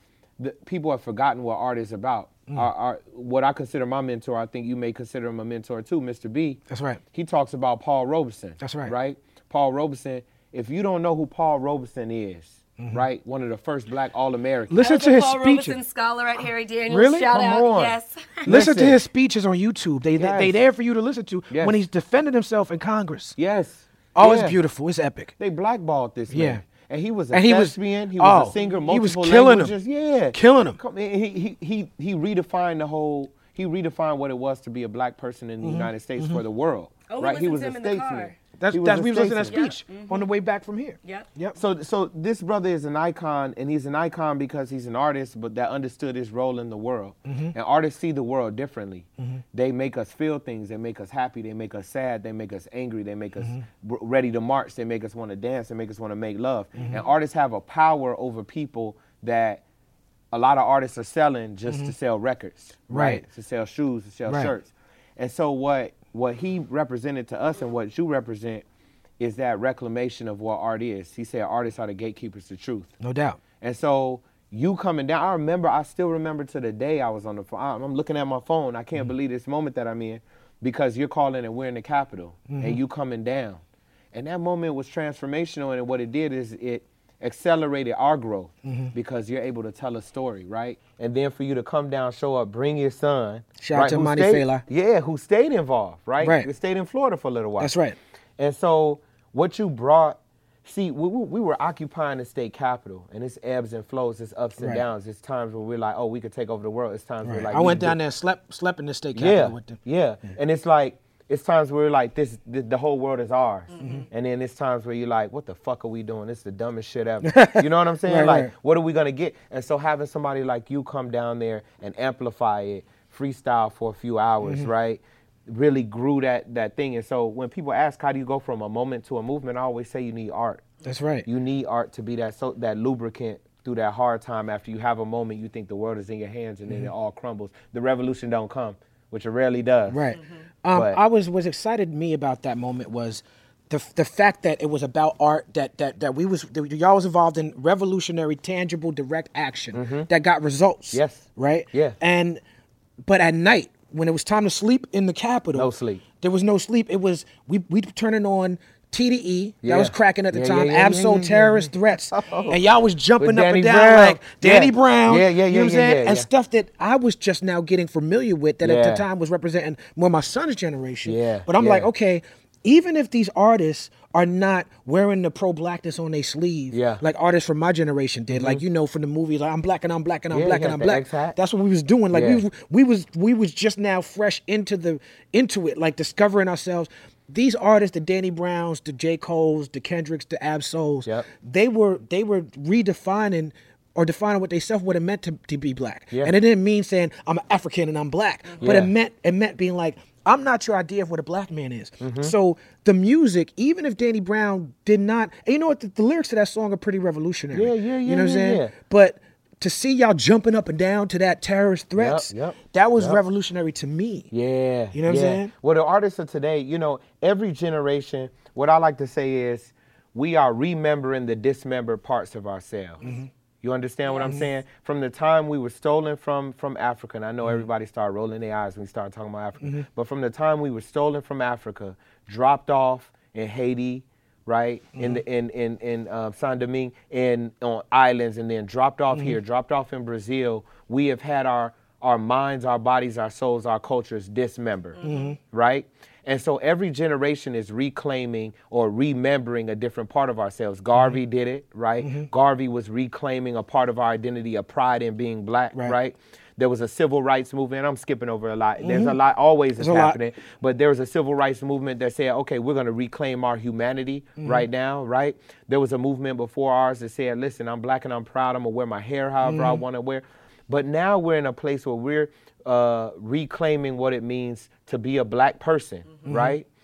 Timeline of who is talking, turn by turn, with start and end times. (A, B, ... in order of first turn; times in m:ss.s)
0:00.4-0:06.6 A
0:06.7-0:07.0 B
0:07.1-0:14.9 A
0:08.6-0:08.9 B
0:12.8-0:13.0 B
0:14.7-0:15.8 B
0:14.8-0:18.5 C
0:16.9-0:17.4 B
0:17.3-0:19.0 A
0:18.4-0:23.4 B
0:20.2-0:20.6 A
0:21.5-0:21.8 A
0:23.4-0:24.6 A
0:24.1-0:25.3 B
0:25.4-0:39.6 A
0:26.3-0:26.6 B
0:27.3-0:29.7 B
0:28.6-0:28.8 C
0:30.3-0:30.8 B
0:35.6-0:36.4 B
0:37.1-0:38.4 C
0:38.6-0:41.6 B
0:39.4-0:40.3 C
0:41.6-0:59.6 A
0:47.2-0:47.5 B
0:53.4-0:53.6 B
0:56.7-0:57.0 B
1:00.3-1:08.6 A
1:01.7-1:01.9 B
1:02.9-1:03.2 B
1:04.3-1:04.5 B
1:09.2-1:12.9 A
1:13.0-1:13.4 B
1:13.6-1:23.6 A
1:22.5-1:22.8 B
1:24.1-1:37.7 A
1:28.6-1:28.9 B
1:33.6-1:34.6 B
1:36.2-1:36.5 B
1:37.6-1:38.0 B
1:38.4-1:48.0 A
1:44.6-1:44.8 B
1:47.2-1:49.8 B
1:49.1-2:10.6 A
1:53.7-1:54.1 C
1:57.2-1:58.5 B
2:04.4-2:04.7 B
2:10.8-2:11.3 B
2:11.2-2:20.0 A
2:19.9-2:32.4 B
2:20.1-2:20.4 C
2:20.7-2:21.0 A
2:29.7-2:30.1 A
2:30.9-2:32.0 A
2:33.0-3:34.3 B
2:35.5-2:36.0 A
2:39.6-2:42.6 A
2:43.2-2:46.3 A
2:48.6-2:49.0 A
2:51.0-2:51.9 A
2:56.7-2:57.0 A
2:58.3-2:58.6 A
3:00.3-3:01.4 A
3:02.1-3:02.4 A
3:18.6-3:18.9 A
3:22.0-3:22.3 A
3:27.5-3:28.7 A
3:32.0-3:33.2 A
3:34.3-3:43.0 A
3:34.9-3:35.5 B
3:43.0-3:43.3 B
3:43.6-4:36.7 A
3:44.1-3:44.3 C
3:55.0-3:55.2 B
3:59.1-3:59.4 B
4:05.0-4:05.3 C
4:05.0-4:05.4 B
4:12.0-4:12.3 B
4:18.8-4:19.2 B
4:19.8-4:20.2 B
4:24.4-4:24.6 B
4:29.4-4:29.8 B
4:36.3-4:36.6 B